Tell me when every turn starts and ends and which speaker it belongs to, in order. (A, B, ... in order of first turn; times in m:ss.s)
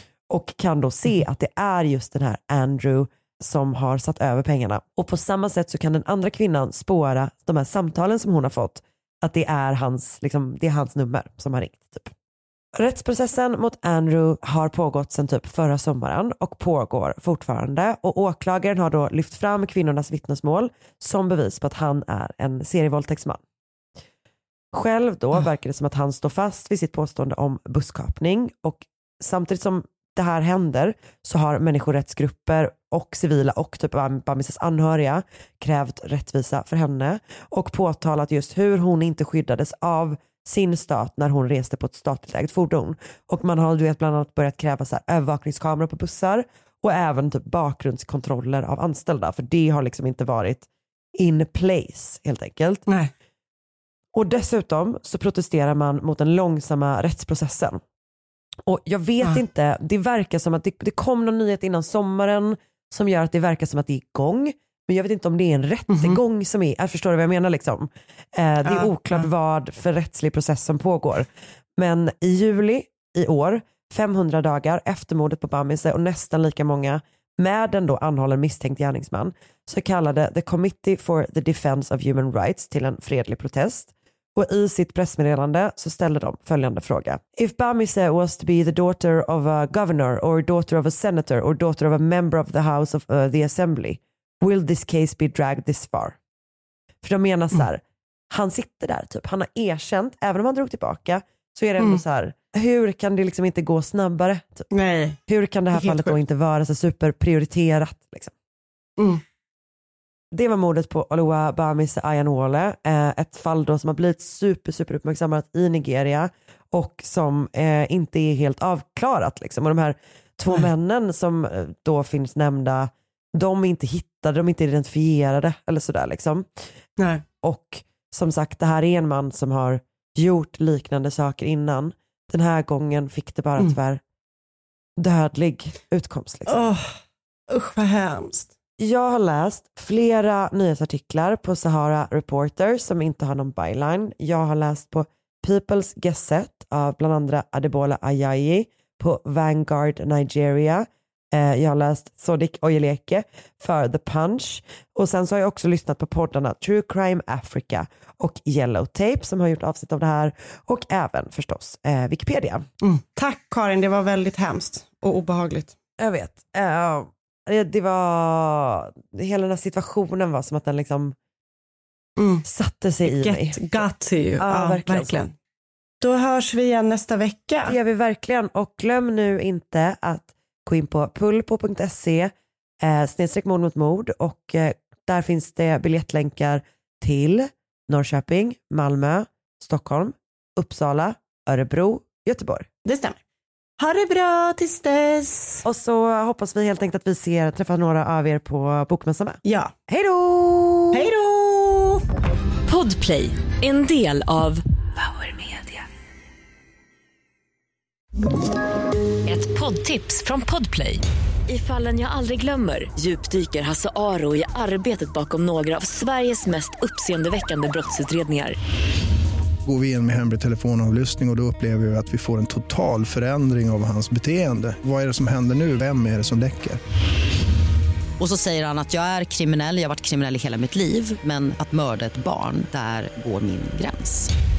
0:00.3-0:12.1 A
0:12.7-0:23.4 A
0:24.7-0:52.8 A
0:54.1-0:57.8 A
0:58.6-1:36.2 A
1:05.9-1:06.2 B
1:08.6-1:09.3 B
1:37.0-1:44.7 A
1:44.7-1:45.2 B
1:45.3-1:48.3 A
1:45.7-1:46.2 B
1:49.0-1:49.2 B
1:50.3-2:06.5 A
2:07.0-2:07.2 B
2:07.4-2:14.0 A
2:15.0-2:16.7 A
2:16.5-2:18.5 B
2:18.8-2:42.6 A
2:42.8-2:45.7 B
2:46.0-2:51.2 A
2:52.2-2:52.4 B
2:52.4-2:53.8 A
2:53.0-2:55.3 B
2:54.4-2:55.2 A
2:56.0-2:57.8 B
2:57.6-3:12.7 A
3:12.8-3:13.2 B
3:13.8-3:15.6 B
3:15.6-3:21.1 A
3:19.4-3:19.7 B
3:20.9-3:22.0 B
3:22.7-3:25.8 C
3:29.2-3:38.6 C
3:39.6-3:46.8 D
3:48.2-3:54.3 E